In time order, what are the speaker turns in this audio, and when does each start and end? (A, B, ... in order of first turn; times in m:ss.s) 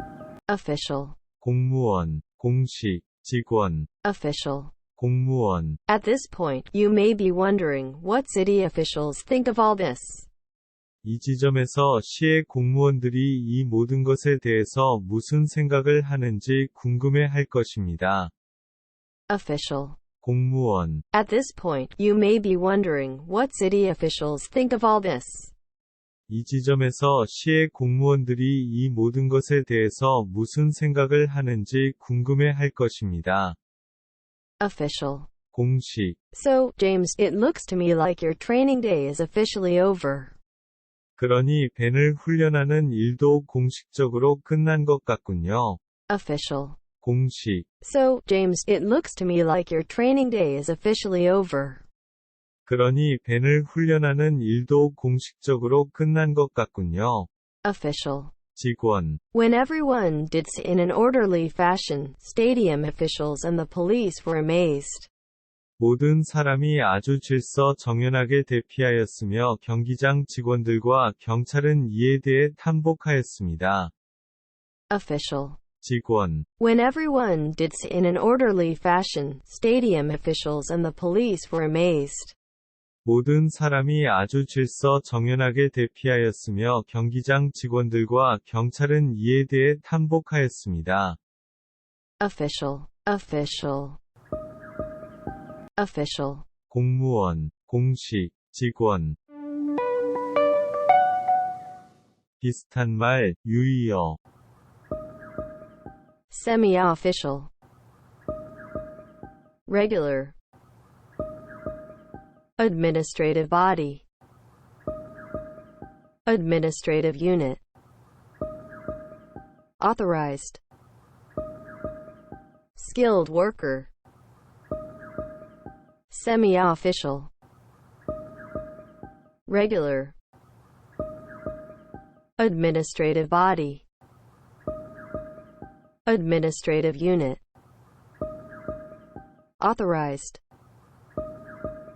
0:00.5-0:01.2 A
0:01.4-0:03.9 B
0:04.0-0:04.8 A
0:05.0-0:05.8 B
0:05.9-0:10.3 A
0:11.0-0:18.3 B
0:19.3-0:20.0 A
0:20.2-0:21.0 B
0:21.1-0:25.5 A
0:26.3-0:33.6 B
0:34.6-0:35.3 A
0:35.5-0:36.2 B
0:36.3-0:40.4 A
0:41.2-0:45.8 B
0:46.1-0:46.8 A
0:47.0-0:47.7 B
0:47.8-0:51.8 A
0:52.7-0:57.3 B
0:57.6-0:58.3 A
0:58.6-0:59.2 B
0:59.3-1:05.1 A
1:05.8-1:13.9 B
1:14.9-1:15.6 A
1:15.8-1:16.5 B
1:16.6-1:22.4 A
1:23.0-1:31.2 B
1:32.2-1:34.0 A
1:35.8-1:36.5 A
1:36.7-1:39.2 B
1:42.4-1:44.2 B
1:46.3-1:47.5 A
1:49.7-1:50.4 A
1:52.6-1:54.0 A
1:56.3-1:57.6 A
1:59.8-2:00.6 A
2:02.8-2:03.9 A
2:06.1-2:07.3 A
2:09.5-2:10.2 A
2:12.4-2:13.9 A
2:16.1-2:17.4 A
2:19.6-2:20.4 A